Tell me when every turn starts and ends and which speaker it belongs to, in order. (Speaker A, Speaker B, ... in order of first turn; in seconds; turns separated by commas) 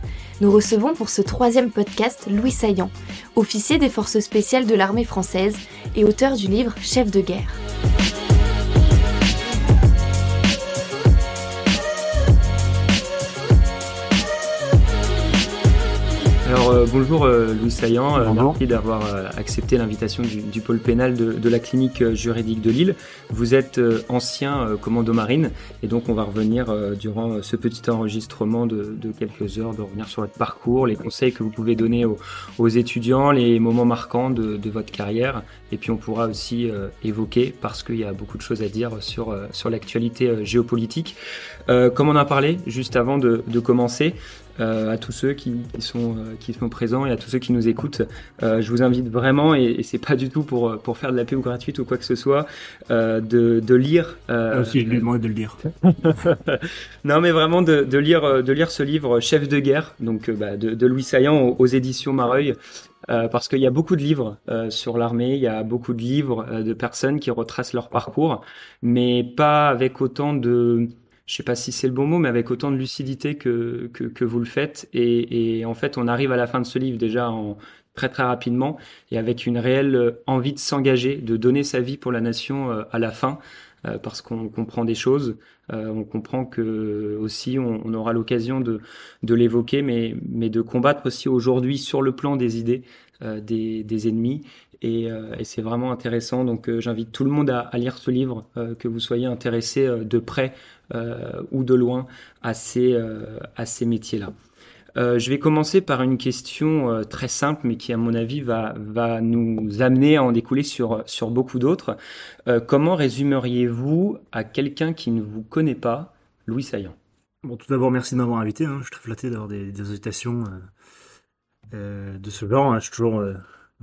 Speaker A: 0.4-7.6, Speaker B: 16.4-41.2, Speaker C: 18.2-18.6, Speaker B: 41.7-55.0, Speaker C: 54.5-55.6, Speaker B: 55.8-62.6, Speaker B: 63.1-104.3, Speaker B: 105.0-117.0, Speaker C: 117.4-120.7, Speaker C: 121.7-123.4